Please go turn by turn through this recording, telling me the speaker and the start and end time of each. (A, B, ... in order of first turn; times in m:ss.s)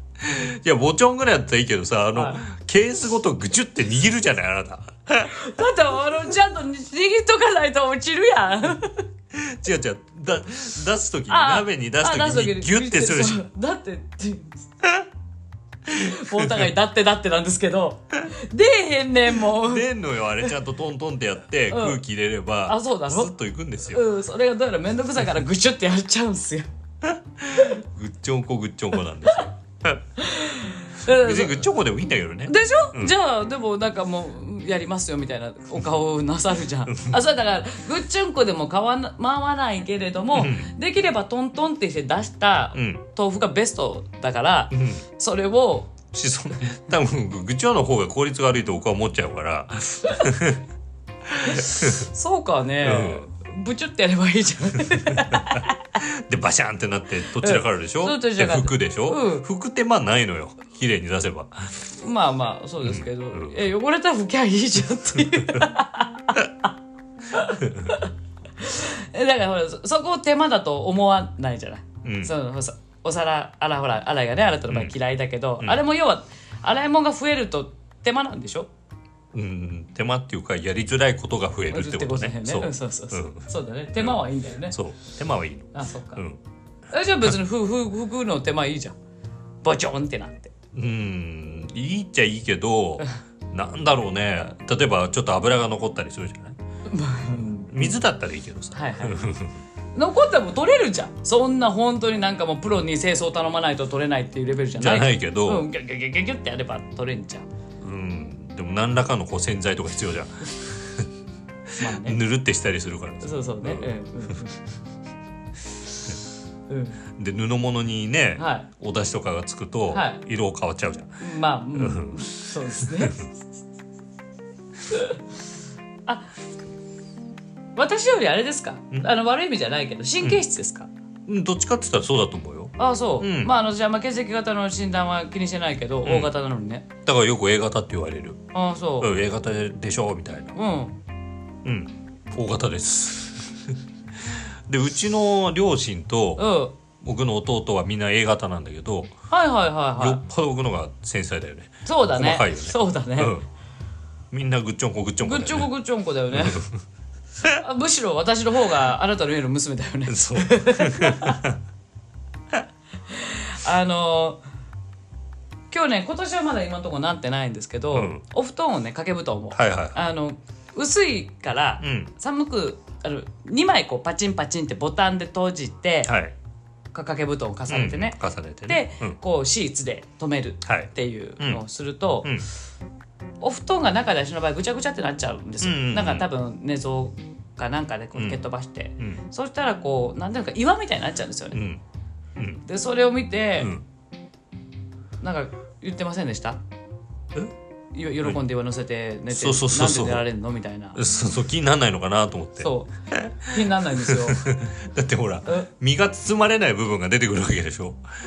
0:00.2-0:05.4 A
0:02.1-0:02.4 B
0:05.3-0:09.1 B
0:09.3-0:13.4 A
0:11.3-0:14.7 B
0:15.9-0:16.6 A
0:15.9-0:20.5 B
0:19.4-0:24.0 A
0:21.7-0:22.0 B
0:22.6-0:23.3 B
0:23.8-0:26.7 B
0:27.0-0:30.0 A
0:30.2-0:31.7 B
0:31.0-0:33.1 A
0:32.4-0:46.0 B
0:36.9-0:37.2 A
0:40.3-0:40.7 A
0:42.7-0:43.0 A
0:44.7-0:45.0 A
0:46.1-0:50.6 A
0:51.2-0:52.1 A
0:51.4-0:55.9 B
0:52.8-0:53.3 A
0:55.1-1:01.9 A
0:57.4-0:59.5 B
1:02.0-1:06.5 B
1:02.8-1:03.7 A
1:07.3-1:18.7 B
1:07.6-1:07.9 A
1:12.0-1:12.3 A
1:14.7-1:14.9 A
1:19.3-1:26.4 A
1:21.7-1:24.8 B
1:25.7-1:26.2 B
1:26.9-1:28.9 B
1:29.6-1:30.5 B
1:30.7-1:36.6 A
1:36.9-1:37.9 B
1:37.6-1:39.6 A
1:38.7-1:39.2 B
1:39.9-1:47.4 B
1:44.8-1:45.7 A
1:47.8-1:51.1 A
1:51.7-1:52.2 B
1:51.8-1:53.9 A
1:53.2-1:54.6 B
1:56.7-1:57.0 B
1:57.2-2:01.2 A
1:58.4-1:58.7 B
1:59.9-2:00.2 B
2:01.2-2:03.3 B
2:01.7-2:03.3 A
2:04.9-2:05.2 B
2:06.0-2:06.3 B
2:07.7-2:10.9 B
2:11.3-2:13.5 A
2:12.8-2:16.8 B
2:16.0-2:16.3 A
2:17.0-2:18.4 A
2:18.5-2:19.1 B
2:19.0-2:20.5 A
2:20.5-2:21.0 B
2:21.6-2:26.4 A
2:26.4-2:26.8 B
2:27.0-2:29.1 A
2:29.3-2:30.2 B
2:30.0-2:33.4 A
2:31.8-2:33.4 B
2:34.3-2:35.7 A
2:35.2-2:36.6 B
2:36.3-2:36.8 A
2:37.5-2:41.4 B
2:40.1-2:41.6 A
2:43.1-2:44.4 B
2:45.7-2:56.1 B
2:47.9-2:48.2 A
2:49.5-2:50.0 A
2:51.8-2:52.1 A
2:56.0-2:56.4 A
2:56.9-3:02.4 B
2:57.7-2:59.2 A
3:00.6-3:01.6 A
3:03.4-3:11.6 B
3:05.6-3:06.3 A
3:08.1-3:08.4 A
3:11.5-3:11.8 A
3:12.4-3:12.6 A
3:12.6-3:13.7 B
3:13.6-3:13.8 A
3:15.2-3:16.6 B
3:17.9-3:21.0 B
3:19.3-3:20.2 A
3:20.9-3:28.0 A
3:22.6-3:24.4 B